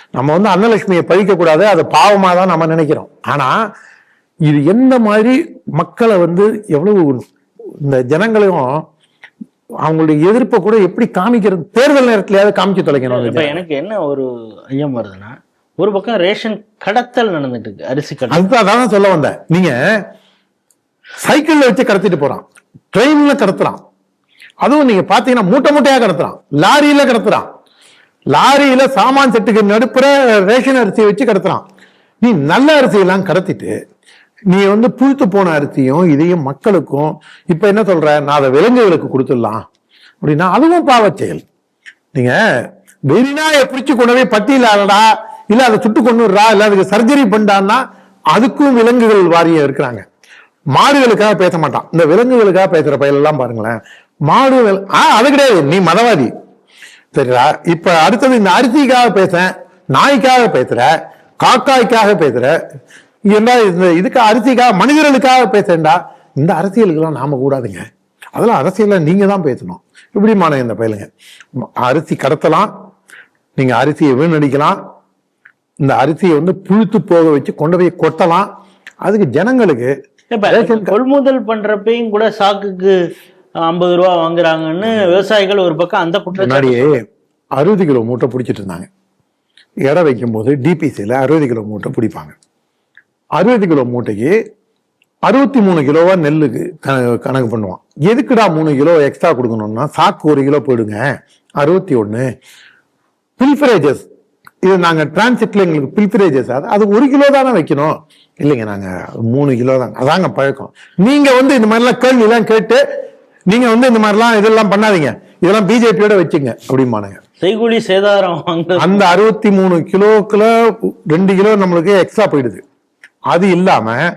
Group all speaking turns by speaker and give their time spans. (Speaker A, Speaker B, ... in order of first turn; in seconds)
Speaker A: 0.1-3.5, 4.5-7.2, 7.8-8.8, 9.8-13.6, 18.3-19.8, 21.2-23.8, 24.6-27.5, 28.3-31.6, 32.2-33.7, 34.5-39.6, 40.2-41.4, 43.1-47.8, 48.3-50.0, 50.7-53.8, 54.3-56.3, 57.1-60.9, 61.4-62.5, 63.3-67.8, 68.4-71.1, 71.8-72.7, 73.6-74.8, 75.8-78.5, 79.0-79.9, 80.5-81.0, 84.8-85.2, 86.4-87.0, 87.6-88.9, 89.9-92.3, 93.4-94.3, 95.3-101.0, 101.6-102.3, 103.4-104.1, 104.7-112.8, 113.5-117.2, 118.8-122.6, 123.3-124.0
Speaker B: 13.1-18.5, 80.3-83.0, 83.7-87.0, 117.4-119.0